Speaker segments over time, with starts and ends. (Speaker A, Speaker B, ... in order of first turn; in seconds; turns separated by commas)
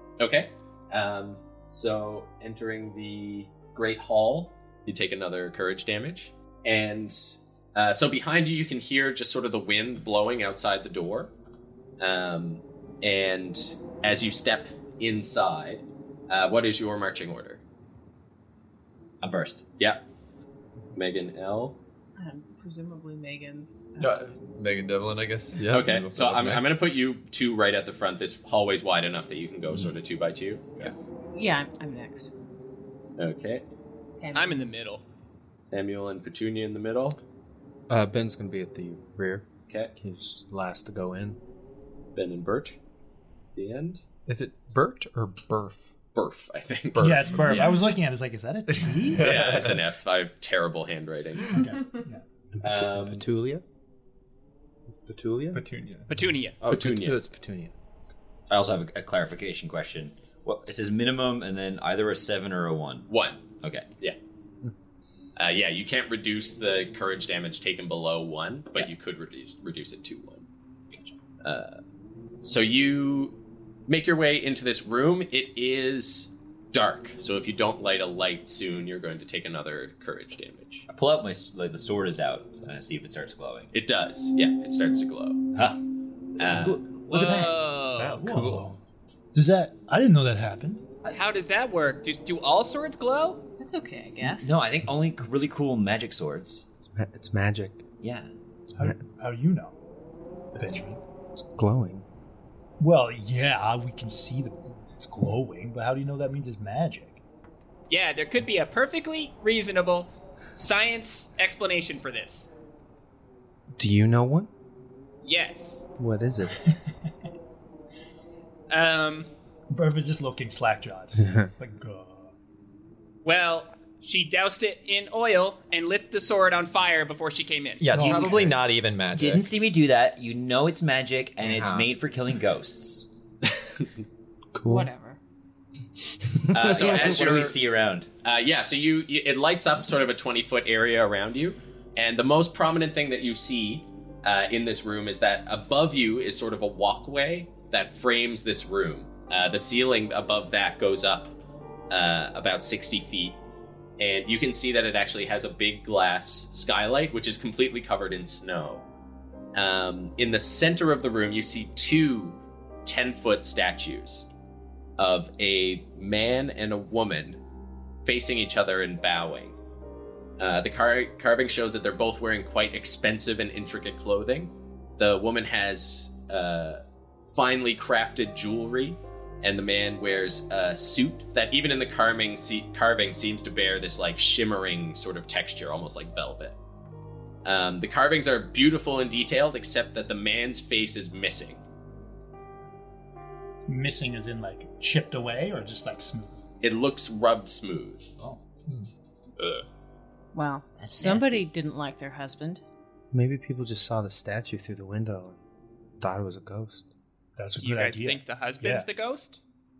Speaker A: 0.2-11.3, Speaker A: 12.0-17.6, Speaker B: 19.2-19.6, Speaker A: 20.9-21.8, Speaker C: 22.2-24.3, Speaker D: 24.0-26.8, Speaker A: 25.7-30.9, Speaker C: 31.3-32.3, Speaker A: 33.2-33.6, Speaker C: 34.2-34.6, Speaker E: 34.3-35.0, Speaker A: 35.7-37.2, Speaker F: 37.9-41.4, Speaker A: 42.1-42.8, Speaker A: 43.5-44.0, Speaker D: 44.3-45.9, Speaker A: 46.1-47.7, Speaker G: 47.0-49.3, Speaker D: 47.0-47.8, Speaker D: 48.7-49.8, Speaker A: 49.2-51.6, Speaker G: 51.5-52.2, Speaker F: 52.5-53.6, Speaker A: 52.6-53.2, Speaker F: 54.9-55.6, Speaker D: 55.5-56.1, Speaker E: 56.1-56.6, Speaker A: 56.6-57.2, Speaker F: 56.7-57.7, Speaker B: 58.5-63.1, Speaker A: 63.1-63.4, Speaker B: 63.6-63.9, Speaker A: 65.3-70.5, Speaker A: 71.4-71.8, Speaker A: 72.4-80.8, Speaker B: 80.9-83.7, Speaker A: 83.7-85.4, Speaker B: 85.5-85.8, Speaker A: 86.4-86.8, Speaker B: 86.4-87.5, Speaker E: 87.1-88.2, Speaker G: 88.0-88.8, Speaker D: 88.0-88.8, Speaker G: 89.3-90.8, Speaker E: 91.1-93.4, Speaker C: 93.6-94.8, Speaker B: 94.2-96.6, Speaker F: 96.8-97.8, Speaker B: 98.0-98.3, Speaker G: 98.7-99.8, Speaker G: 100.5-101.0, Speaker F: 101.3-102.0, Speaker G: 102.8-107.2, Speaker E: 107.9-112.5, Speaker F: 113.7-114.5, Speaker E: 115.2-115.8, Speaker F: 116.0-116.6, Speaker E: 118.7-119.3, Speaker G: 119.7-122.3, Speaker E: 123.2-128.4, Speaker D: 127.8-129.5, Speaker B: 127.9-128.6, Speaker B: 129.1-133.1, Speaker D: 131.5-131.8, Speaker F: 134.5-134.9, Speaker C: 134.6-135.2, Speaker A: 136.5-137.6, Speaker B: 136.6-138.1, Speaker A: 138.2-151.3, Speaker A: 151.9-153.4, Speaker A: 154.0-158.8, Speaker A: 159.5-164.3, Speaker A: 165.0-167.4, Speaker A: 168.0-169.6, Speaker A: 170.4-186.6, Speaker A: 187.4-191.6, Speaker G: 193.7-196.5, Speaker A: 196.6-198.1, Speaker G: 198.2-198.4, Speaker C: 200.3-202.6, Speaker B: 200.8-201.5, Speaker F: 203.1-205.4, Speaker F: 206.0-206.9, Speaker G: 207.3-208.9, Speaker E: 207.6-209.4